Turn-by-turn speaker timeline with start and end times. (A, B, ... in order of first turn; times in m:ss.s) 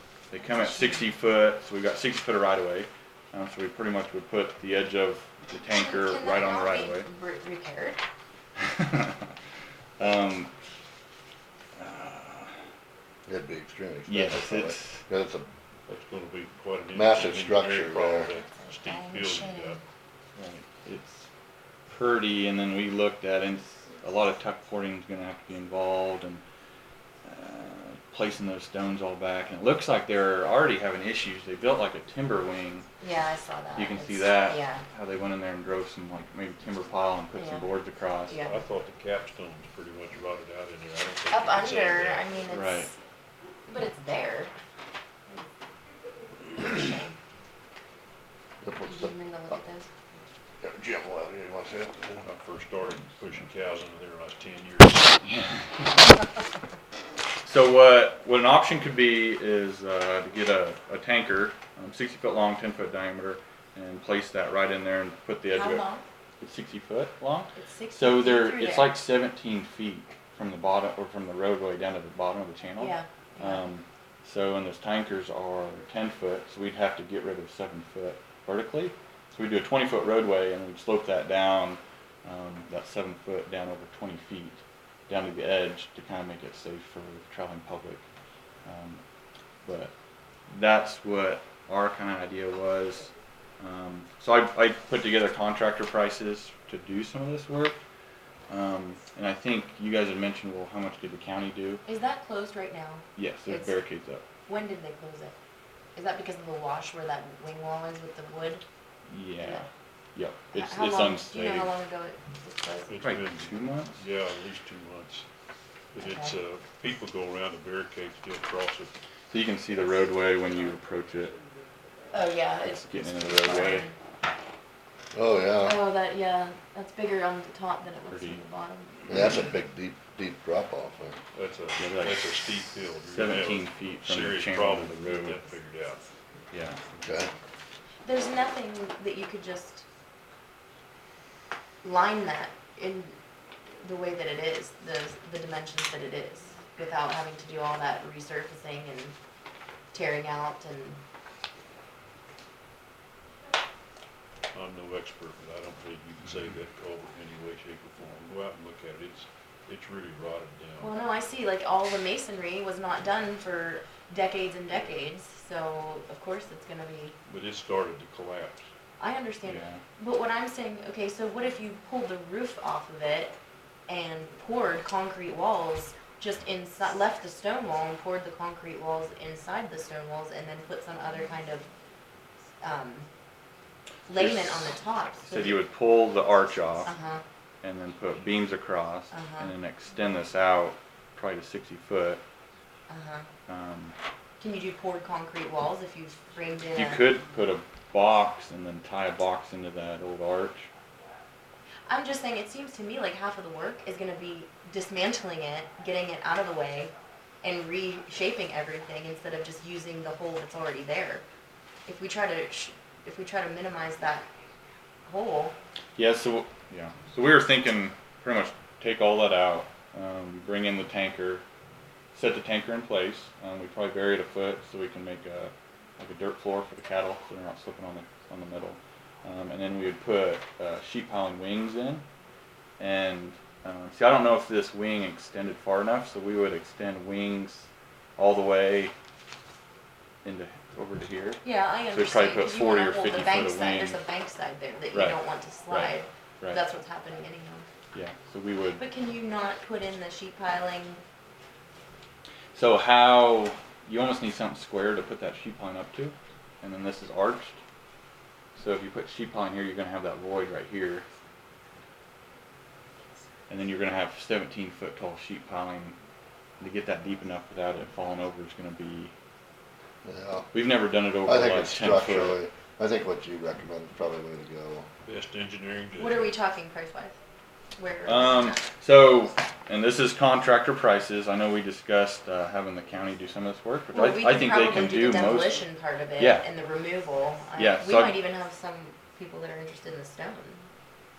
0:00.3-0:07.1 A
0:05.7-0:08.0 B
0:08.6-0:09.3 A
0:10.0-0:10.5 A
0:11.8-0:12.5 A
0:13.3-0:15.5 C
0:14.1-0:15.0 A
0:15.9-0:19.8 D
0:16.9-0:18.3 C
0:18.6-0:19.8 B
0:20.4-0:21.3 A
0:21.9-0:26.4 A
0:27.2-0:32.9 A
0:33.0-0:34.8 B
0:33.8-0:38.4 A
0:37.4-0:37.7 B
0:38.3-0:38.6 B
0:38.4-0:42.3 D
0:41.3-0:43.0 B
0:42.5-0:42.9 A
0:43.7-0:44.5 B
0:46.6-0:47.1 B
0:48.6-0:49.1 C
0:48.8-0:49.9 B
0:50.6-0:52.3 C
0:52.2-0:55.2 D
0:55.2-0:55.9 A
0:57.4-1:05.8 A
1:05.5-1:06.0 B
1:06.4-1:28.0 A
1:07.6-1:09.0 B
1:12.8-1:13.7 B
1:28.6-1:29.0 A
1:29.6-1:29.9 A
1:30.5-1:37.8 A
1:38.5-1:41.8 A
1:41.9-1:43.8 B
1:43.2-1:44.2 A
1:44.5-1:45.4 B
1:46.0-1:48.6 B
1:49.1-1:51.7 A
1:50.5-1:53.0 B
1:52.9-1:55.3 D
1:53.0-1:54.0 A
1:55.9-1:58.9 D
1:56.0-1:56.4 B
1:59.3-2:01.4 A
2:02.1-2:03.9 B
2:02.6-2:03.9 A
2:05.1-2:05.9 C
2:05.6-2:09.0 B
2:08.1-2:08.4 A
2:09.1-2:11.2 C
2:11.3-2:16.1 D
2:11.8-2:12.4 A
2:13.0-2:15.4 A
2:16.5-2:16.8 A
2:17.0-2:17.3 C
2:18.0-2:19.9 B
2:21.8-2:23.2 B
2:23.8-2:29.2 B
2:29.9-2:31.0 B
2:34.5-2:40.9 D
2:40.8-2:47.2 B
2:47.3-2:48.7 D
2:49.0-2:53.4 B
2:49.4-2:49.8 A
2:53.9-3:01.7 B
3:02.6-3:03.1 B
3:04.1-3:05.6 B
3:04.2-3:04.7 A
3:05.2-3:06.9 A
3:06.8-3:07.2 B
3:07.6-3:12.2 A
3:09.1-3:09.5 B
3:12.9-3:13.3 B
3:13.5-3:14.0 A
3:14.4-3:17.0 B
3:16.7-3:20.7 A
3:21.9-3:31.2 B
3:31.9-3:34.3 B
3:35.1-3:35.5 B
3:36.0-3:41.4 A
3:42.1-3:52.0 A
3:52.8-3:58.9 A
4:00.2-4:04.0 A
4:01.4-4:07.7 B
4:04.9-4:06.6 A
4:07.9-4:08.8 A
4:08.8-4:11.0 B
4:12.6-4:17.6 A
4:18.6-4:21.1 A
4:23.5-4:26.0 A
4:26.6-4:29.1 A
4:30.0-4:30.5 C
4:30.5-4:32.4 A
4:31.2-4:34.9 C
4:35.0-4:36.3 D
4:36.0-4:37.2 B
4:37.8-4:38.6 B
4:38.1-4:45.6 A
4:43.9-4:50.6 B
4:46.2-4:46.5 A
4:47.6-4:48.2 A